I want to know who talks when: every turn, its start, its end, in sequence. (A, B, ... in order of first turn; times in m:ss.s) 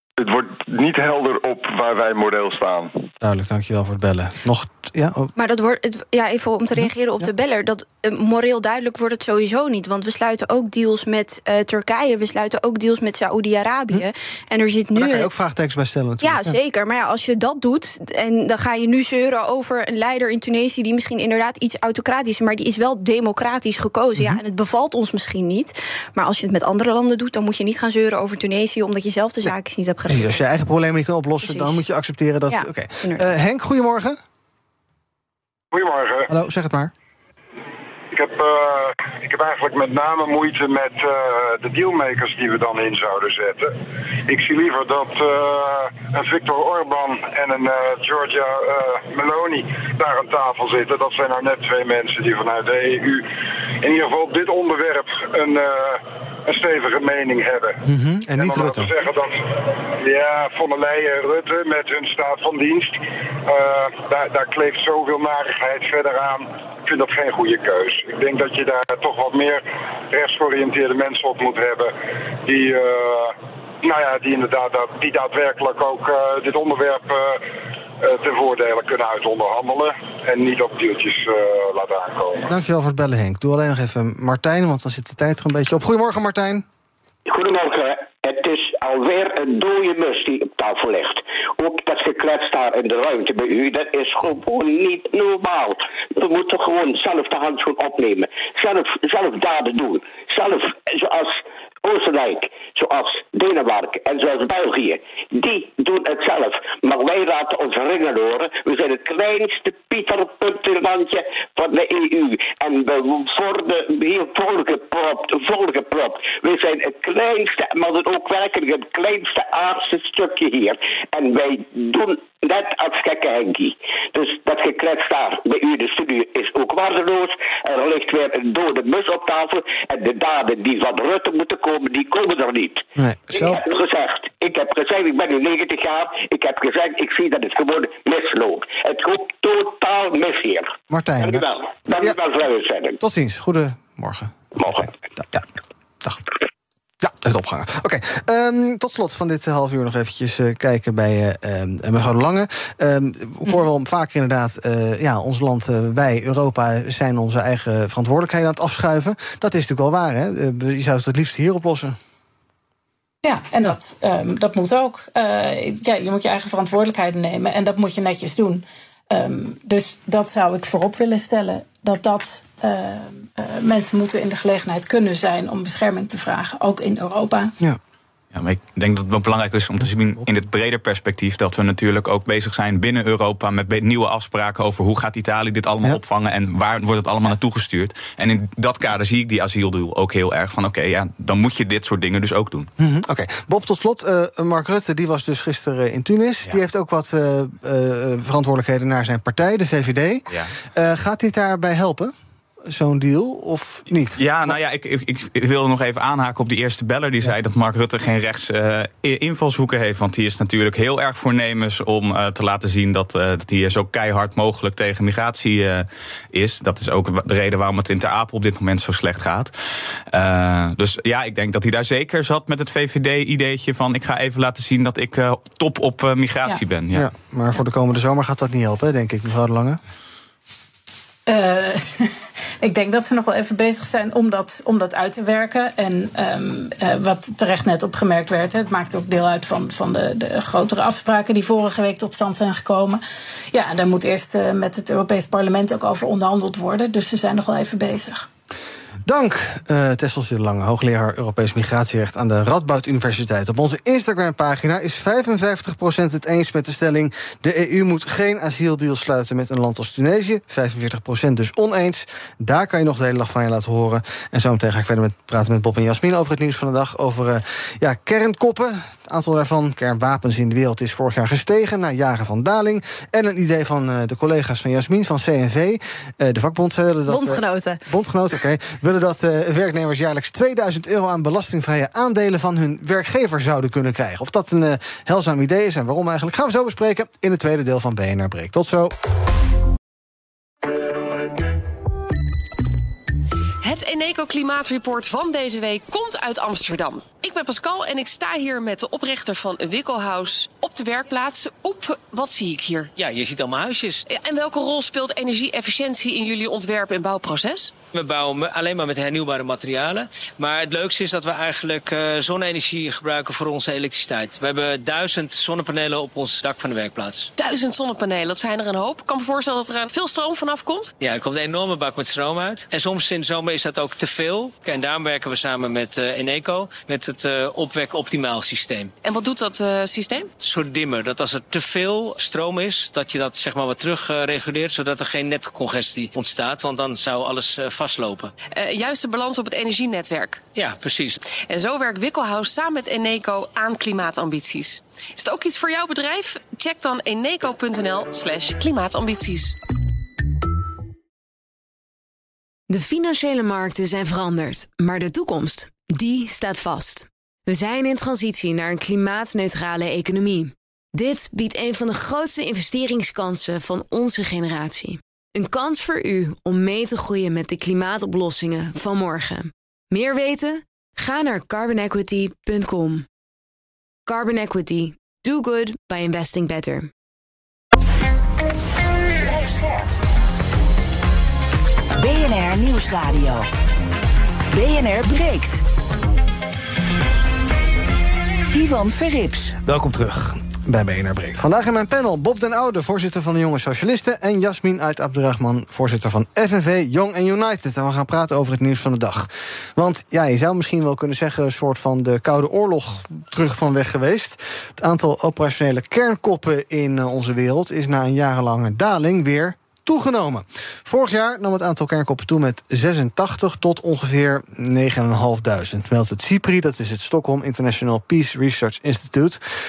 0:00.2-0:03.0 A
0:03.2-0:05.3 B
0:05.4-0:15.3 C
0:14.9-0:16.6 B
0:16.2-0:30.4 C
0:30.1-0:34.2 B
0:31.4-0:31.8 C
0:32.5-0:33.3 C
0:35.7-0:36.3 D
0:36.3-0:36.9 B
0:38.1-0:53.3 D
0:53.8-0:57.8 D
0:57.8-0:58.9 B
0:58.4-1:22.6 D
1:22.5-1:26.6 B
1:27.3-2:23.0 E
2:13.0-2:13.6 B
2:20.9-2:22.2 B
2:23.0-2:25.4 B
2:27.0-2:42.0 B
2:43.2-2:57.6 F
2:58.3-3:12.7 G
3:12.8-3:22.1 B
3:22.6-3:24.6 B
3:24.2-3:39.6 G
3:40.1-3:47.1 G
3:46.9-3:49.8 B
3:51.3-4:03.0 F
4:03.5-4:08.3 F
4:09.0-4:48.9 B
4:37.1-4:37.8 C
4:53.6-5:02.9 H
5:03.0-5:04.1 I
5:04.1-5:07.8 H
5:07.9-5:17.3 I
5:17.4-5:20.9 H
5:21.0-5:28.9 I
5:29.0-5:30.3 H
5:30.4-5:38.3 I
5:38.5-5:40.4 H
5:40.5-5:41.2 I
5:41.5-5:49.6 H
5:52.7-6:13.0 J
6:14.1-6:16.9 J
6:19.2-6:19.9 K
6:22.0-6:23.5 K
6:24.5-6:25.6 K
6:28.5-6:29.6 K
6:29.6-6:59.4 B